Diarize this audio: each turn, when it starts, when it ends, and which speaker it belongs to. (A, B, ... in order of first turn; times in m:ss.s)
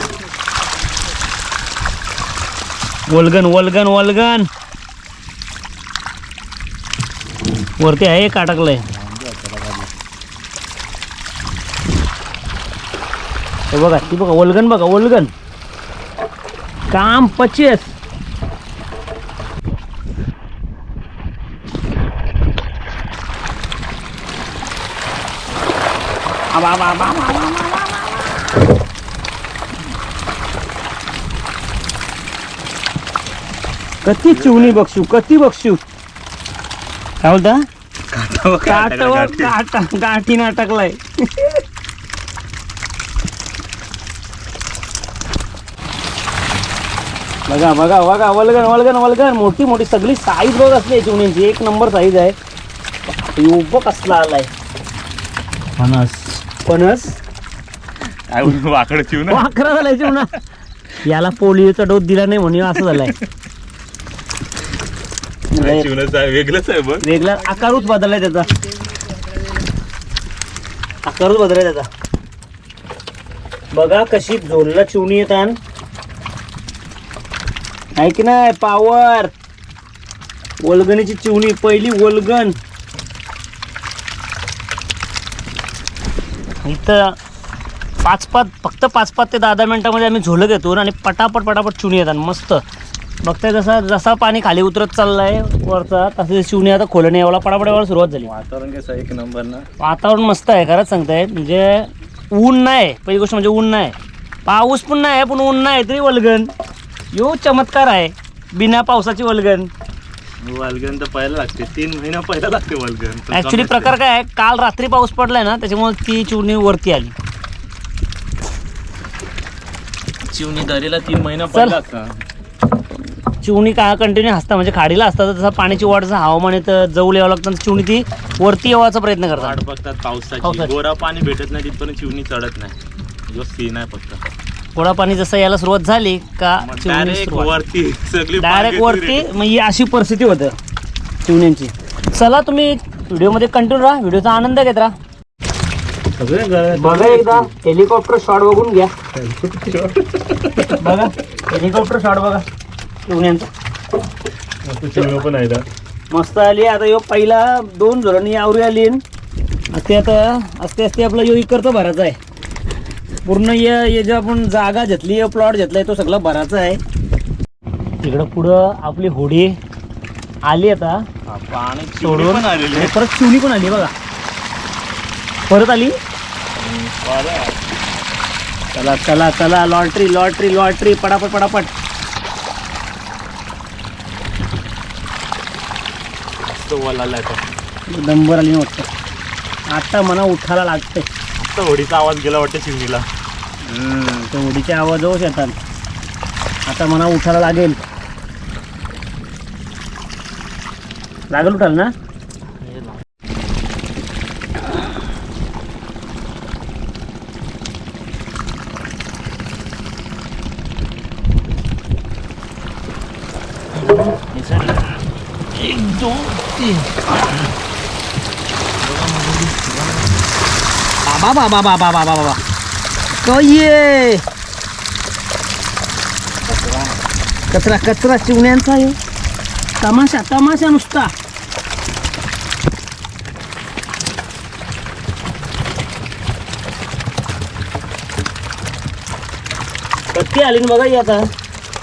0:03.1-0:04.5 A
0:07.8-0:08.8 A
0:08.9-0:09.9 B
0:13.7-0:15.3 A
0:16.9-0:17.9 A
0:26.5-0:28.6 A
0:34.0-0:35.8 A
0:34.3-0:34.8 B
0:37.2-0:37.6 A
0:38.1-0:39.6 B
0:38.6-0:41.6 A
0:47.5-0:52.4 A
0:53.4-0:54.5 A
0:55.8-0:57.2 A
0:58.3-0:59.5 B
0:59.3-1:00.3 A
1:01.0-1:03.2 A
1:02.7-1:03.3 B
1:05.5-1:05.9 A
1:05.6-1:07.1 B
1:07.0-1:08.5 A
1:11.0-1:11.9 A
1:13.7-1:15.6 A
1:18.0-1:19.3 A
1:20.6-1:22.6 A
1:26.6-1:27.2 A
1:28.0-1:32.6 A
1:33.2-1:38.3 A
1:38.2-1:39.7 B
1:39.8-1:46.5 A
1:47.1-1:49.7 A
1:50.4-1:54.0 B
1:53.3-1:57.1 A
2:00.3-2:02.2 B
2:01.5-2:01.8 A
2:03.4-2:09.6 A
2:09.3-2:12.8 B
2:10.4-2:10.7 A
2:13.3-2:14.2 B
2:14.8-2:17.5 A
2:16.6-2:19.3 B
2:18.4-2:20.5 A
2:21.2-2:24.9 A
2:26.2-2:27.5 B
2:26.7-2:28.9 A
2:29.1-2:30.9 B
2:30.8-2:32.4 A
2:33.1-2:33.5 A
2:34.6-2:35.7 B
2:36.1-2:39.0 A
2:39.7-2:42.2 A
2:43.2-2:46.8 A
2:48.0-2:49.6 A
2:50.5-2:51.0 A
2:51.3-2:53.0 B
2:52.0-2:53.9 A
2:55.5-2:56.0 A
2:56.6-2:57.6 B
2:58.8-3:01.7 A
3:06.5-3:07.4 B
3:07.9-3:08.9 A
3:09.7-3:11.1 A
3:11.4-3:13.1 B
3:13.6-3:14.3 B
3:14.3-3:15.6 A
3:16.7-3:17.8 A
3:21.3-3:21.9 A
3:22.6-3:23.0 B
3:33.9-3:35.0 B
3:35.5-3:37.0 B
3:38.8-3:40.2 B
3:41.0-3:42.4 A
3:43.2-3:44.2 A
3:46.4-3:47.0 B
3:47.5-3:49.0 A
3:49.8-3:51.1 A
4:00.1-4:01.3 A